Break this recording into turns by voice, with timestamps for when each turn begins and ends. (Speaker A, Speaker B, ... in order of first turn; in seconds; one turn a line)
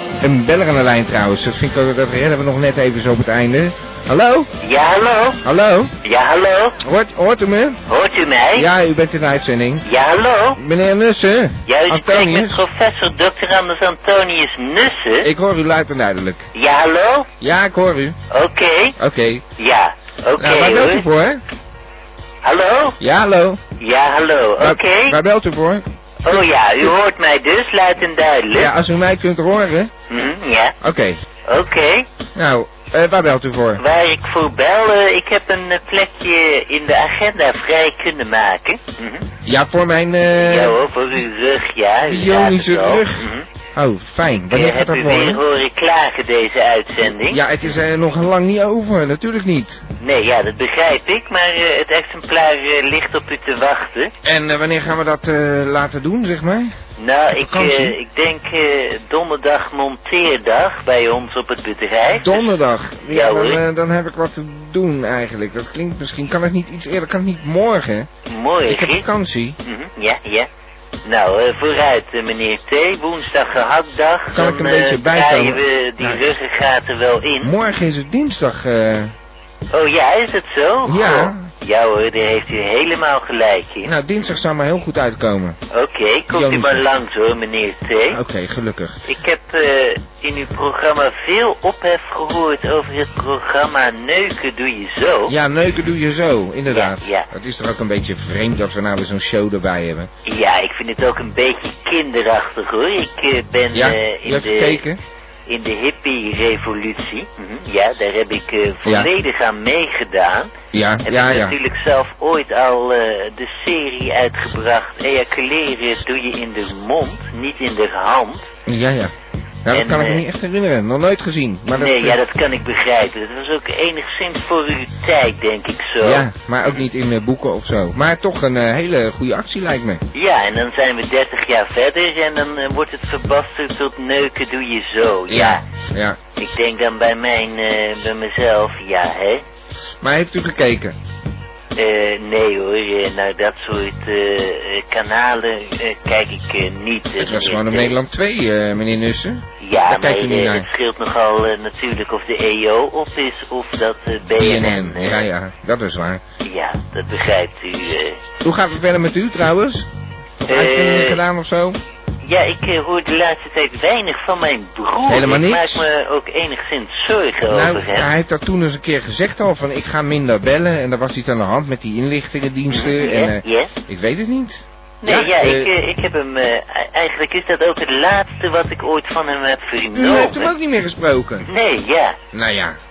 Speaker A: 0.2-4.5
Speaker B: 4.6-5.4
Speaker A: 5.4-6.0
Speaker B: 6.0-6.8
Speaker A: 6.8-7.8
Speaker B: 7.9-8.7
Speaker A: 8.5-9.9
Speaker B: 9.8-10.6
Speaker A: 10.6-12.6
Speaker B: 11.7-15.3
Speaker A: 15.2-16.5
Speaker B: 16.5-17.3
Speaker A: 17.4-18.2
Speaker B: 18.3-18.9
Speaker A: 19.0-19.4
Speaker B: 19.6-21.0
Speaker A: 20.4-21.4
Speaker B: 22.4-23.0
Speaker A: 23.0-23.6
Speaker B: 23.8-25.2
Speaker A: 24.6-26.9
Speaker B: 26.2-28.7
Speaker A: 28.5-29.9
Speaker B: 30.1-30.7
Speaker A: 30.8-31.2
Speaker B: 31.4-32.1
Speaker A: 32.3-33.8
Speaker B: 33.8-39.3
Speaker A: 39.4-40.8
Speaker B: 40.4-43.5
Speaker A: 42.1-45.4
Speaker B: 44.5-47.4
Speaker A: 47.0-49.8
Speaker B: 50.0-54.1
Speaker A: 54.2-56.7
Speaker B: 57.0-62.5
Speaker A: 57.4-58.0
Speaker A: 62.2-68.1
Speaker B: 63.1-63.6
Speaker B: 68.2-69.0
Speaker A: 68.6-69.6
Speaker B: 69.6-70.5
Speaker B: 71.0-77.6
Speaker A: 74.3-76.2
Speaker A: 77.4-79.1
Speaker B: 79.7-83.9
Speaker A: 80.8-81.5
Speaker A: 83.8-85.6
Speaker B: 85.7-88.2
Speaker A: 86.3-86.8
Speaker A: 88.1-89.0
Speaker B: 89.0-95.3
Speaker A: 95.3-100.1
Speaker B: 96.7-97.3
Speaker B: 100.2-104.8
Speaker A: 103.7-105.0
Speaker B: 105.5-110.5
Speaker A: 108.8-109.1
Speaker A: 110.7-111.5
Speaker B: 111.0-118.5
Speaker A: 118.7-119.1
Speaker A: 119.6-122.2
Speaker B: 119.7-120.2
Speaker B: 121.7-126.8
Speaker A: 126.0-130.0
Speaker B: 130.1-135.6
Speaker A: 135.3-136.2
Speaker B: 136.3-139.4
Speaker A: 140.0-141.0
Speaker B: 141.7-147.9
Speaker A: 147.2-150.7
Speaker B: 149.6-155.2
Speaker A: 154.3-156.2
Speaker B: 156.4-158.2
Speaker A: 158.4-159.9
Speaker B: 160.4-161.2
Speaker A: 160.5-161.8
Speaker B: 162.2-168.1
Speaker A: 165.1-165.9
Speaker A: 167.5-175.7
Speaker B: 172.7-173.8
Speaker B: 175.0-180.5
Speaker A: 179.9-181.5
Speaker B: 181.4-182.2
Speaker A: 182.3-182.8